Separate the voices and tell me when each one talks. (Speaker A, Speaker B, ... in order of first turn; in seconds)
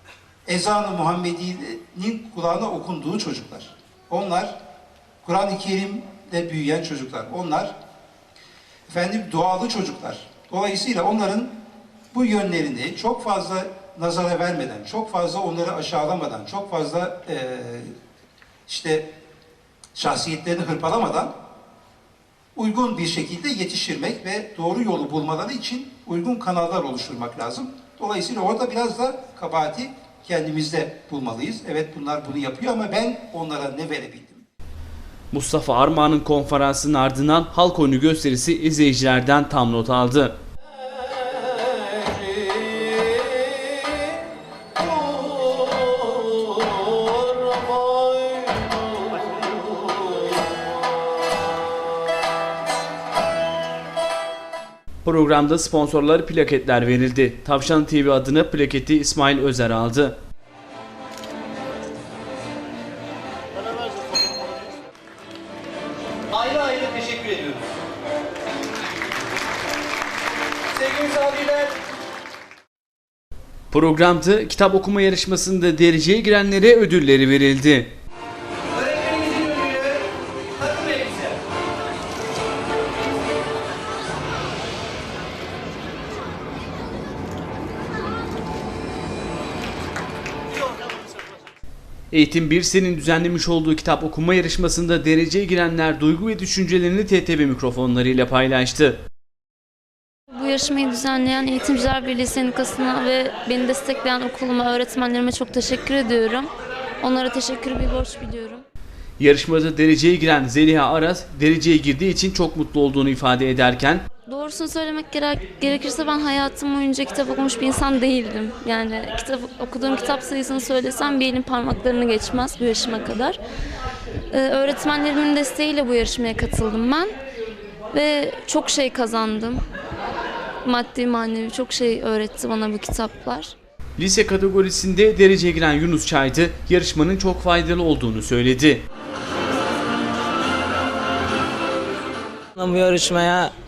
Speaker A: 0.5-4.5, 5.2-7.7, 8.9-11.5, 12.1-17.9, 18.7-19.1, 19.9-21.3, 22.6-34.5
Speaker B: 35.3-40.3, 55.0-60.2, 73.7-77.9, 92.1-99.0, 109.2-114.0, 134.0-138.8
Speaker C: 41.9-43.2, 44.9-46.5, 47.5-48.7, 142.6-143.5
Speaker D: 66.3-67.5, 70.8-71.7, 78.8-79.7, 80.7-81.1
Speaker E: 100.3-106.5, 107.0-108.6, 114.3-123.4, 124.3-127.1, 127.9-129.6, 130.6-133.5